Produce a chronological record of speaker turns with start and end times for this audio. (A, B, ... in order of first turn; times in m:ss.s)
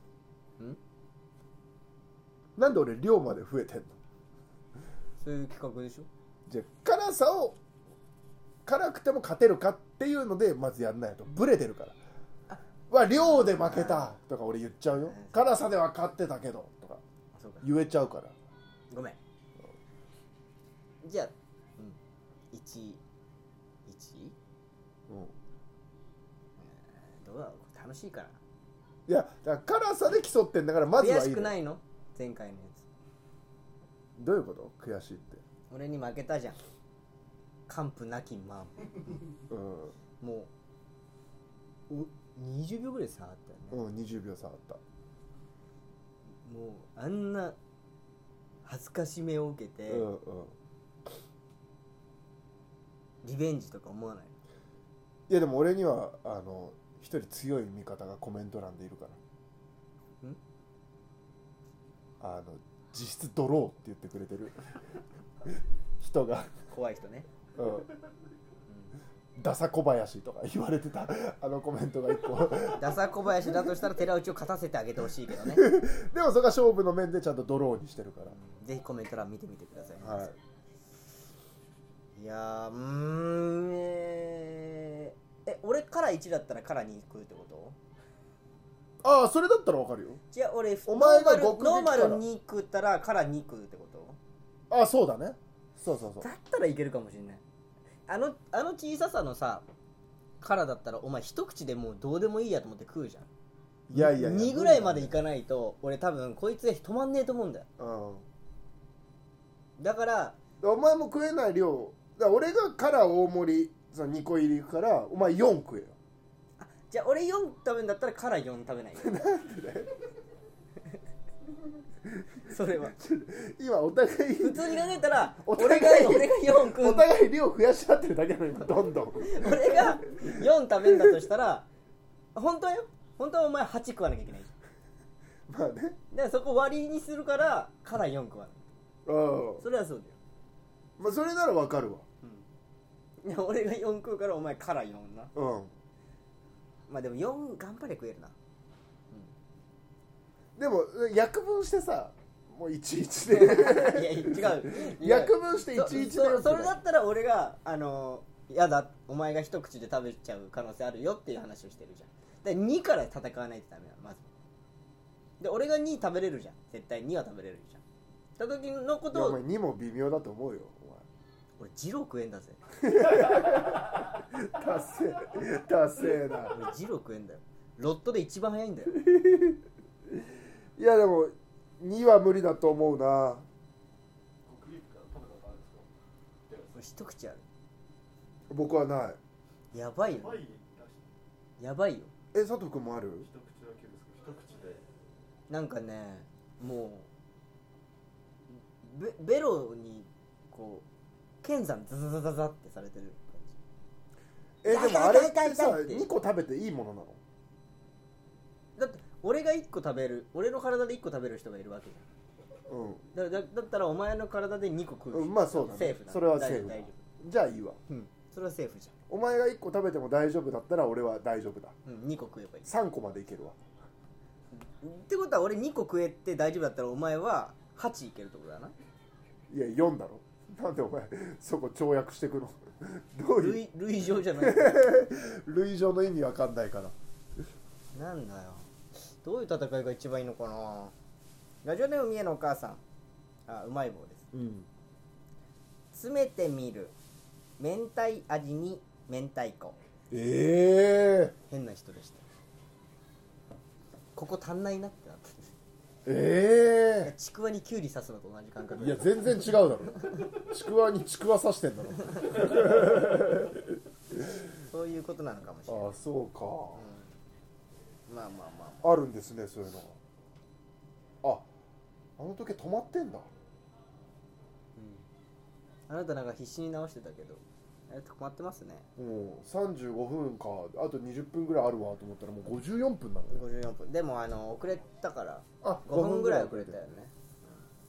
0:02.6-0:04.0 A
0:05.2-0:06.1 B
0:06.5-0:07.6 A
0:08.6-0:12.0 A
0:12.5-0:14.1 B
0:12.9-0:17.0 A
0:15.1-0:15.4 B
0:17.3-0:17.7 B
0:17.6-0:18.3 A
0:18.9-0:19.2 B
0:21.0-0:22.0 B
0:22.5-0:23.0 B
0:23.9-0:24.3 B
0:25.1-0:25.3 A
0:26.6-0:28.4 B
0:29.1-0:31.5 A
0:31.0-0:32.8 B
0:34.2-0:35.4 A
0:35.7-0:36.6 B
0:37.7-0:39.2 B
0:39.5-0:39.9 A
0:40.2-0:40.5 B
0:41.9-0:43.8 B
0:43.7-0:44.8 A
0:46.4-0:47.6 B
0:48.6-0:50.1 B
0:49.9-0:50.5 A
0:53.2-0:54.3 B
0:55.3-0:59.2 A
1:02.2-1:04.8 A
1:06.0-1:06.6 A
1:06.7-1:07.3 B
1:07.6-1:07.9 A
1:09.4-1:12.9 A
1:12.7-1:15.7 B
1:13.5-1:13.7 A
1:15.5-1:18.4 A
1:18.3-1:20.3 B
1:20.0-1:20.4 A
1:22.2-1:27.8 B
1:29.0-1:30.2 A
1:30.3-1:34.2 B
1:30.9-1:32.2 A
1:34.7-1:36.3 A
1:36.2-1:37.4 B
1:38.1-1:39.6 B
1:40.4-1:43.3 B
1:43.9-1:45.1 A
1:43.9-1:47.7 B
1:47.8-1:48.2 A
1:49.8-1:50.4 B
1:50.6-1:56.0 A
1:56.6-1:59.1 B
1:59.0-1:59.9 A
2:02.5-2:03.0 B
2:03.0-2:04.8 A
2:04.4-2:07.1 B
2:05.4-2:11.1 A
2:09.2-2:11.7 B
2:12.3-2:14.5 B
2:15.5-2:16.0 A
2:16.1-2:18.7 B
2:19.0-2:19.6 A
2:19.6-2:20.2 B
2:21.0-2:22.0 A
2:23.2-2:25.3 B
2:25.3-2:25.7 A
2:26.9-2:28.3 B
2:30.6-2:36.8 A
2:33.3-2:44.3 B
2:45.4-2:47.8 B
2:48.4-2:49.4 B
2:49.1-2:51.0 A
2:51.6-2:52.6 B
2:52.8-2:56.5 A
2:56.5-2:59.0 B
2:59.1-2:59.6 A
3:00.8-3:03.4 A
3:04.4-3:05.9 C
3:06.5-3:06.7 C
3:06.7-3:07.4 B
3:08.5-3:09.2 A
3:09.7-3:10.4 B
3:10.1-3:11.0 C
3:11.6-3:12.1 B
3:12.3-3:13.3 A
3:13.2-3:14.8 C
3:15.5-3:17.1 B
3:18.5-3:20.8 B
3:21.4-3:23.6 B
3:24.6-3:27.2 A
3:24.6-3:26.1 B
3:28.8-3:32.0 B
3:32.7-3:33.0 A
3:33.1-3:37.0 B
3:35.1-3:37.8 A
3:37.9-3:38.9 B
3:39.1-3:41.7 A
3:41.8-3:42.7 B
3:42.6-3:43.6 A
3:44.5-3:48.7 B
3:49.5-3:53.6 A
3:53.4-3:54.8 B
3:54.4-3:56.9 A
3:57.9-4:00.9 B
4:01.6-4:02.8 B
4:03.5-4:04.2 B
4:04.3-4:04.7 A
4:05.9-4:06.9 B
4:07.6-4:09.8 B
4:10.1-4:11.3 A
4:11.5-4:12.2 B
4:14.1-4:15.5 B
4:16.0-4:17.1 A
4:17.0-4:19.6 B
4:18.8-4:24.3 A
4:24.6-4:25.9 B
4:25.7-4:26.8 A
4:26.8-4:27.1 B
4:28.1-4:28.9 B
4:28.8-4:30.0 A
4:32.2-4:33.3 A
4:34.8-4:35.0 B
4:35.9-4:38.8 B
4:39.0-4:43.4 A
4:43.3-4:47.6 B
4:45.6-4:46.8 A